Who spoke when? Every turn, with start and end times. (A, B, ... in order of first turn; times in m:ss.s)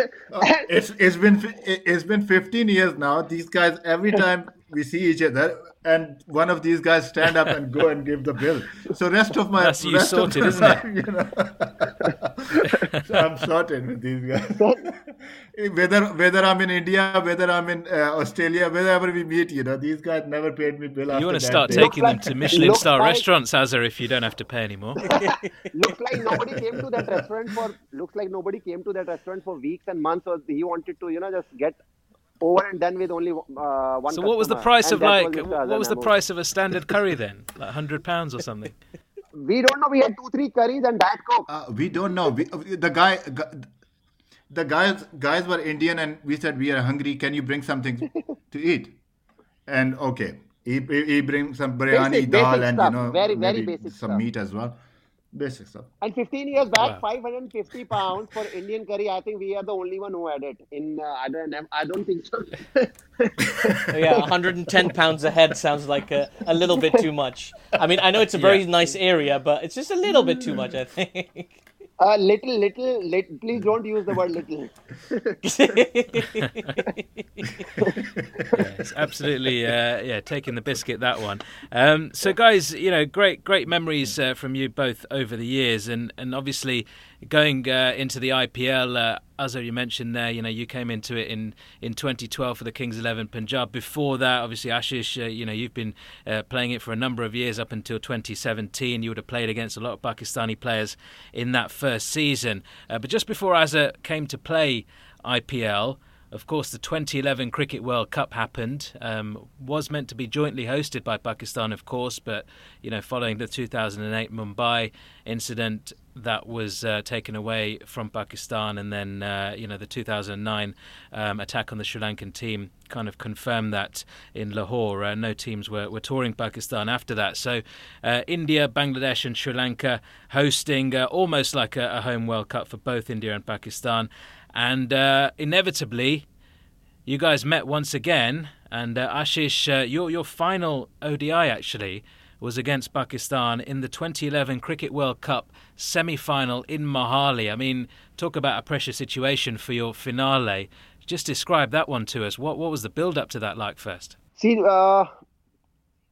0:00.3-0:22.2 A
0:09.6-0:10.8 B
0:14.6-0:14.9 C
0:21.1-0:25.2 B
0:21.7-0:23.3 C
0:25.0-0:31.8 C
0:32.4-0:36.1 C
0:34.1-0:38.8 B
0:39.4-0:41.5 C
0:41.5-0:43.7 A
0:44.5-0:49.0 A
0:49.7-0:54.8 A
0:51.9-0:54.2 C
0:55.3-0:55.9 A
0:56.0-1:04.2 C
1:03.7-1:04.1 A
1:03.9-1:11.6 D
1:08.4-1:08.6 B
1:12.0-1:15.8 C
1:15.4-1:17.0 D
1:17.8-1:18.5 C
1:18.5-2:16.2 B
2:17.1-2:34.2 B
2:34.4-2:35.1 C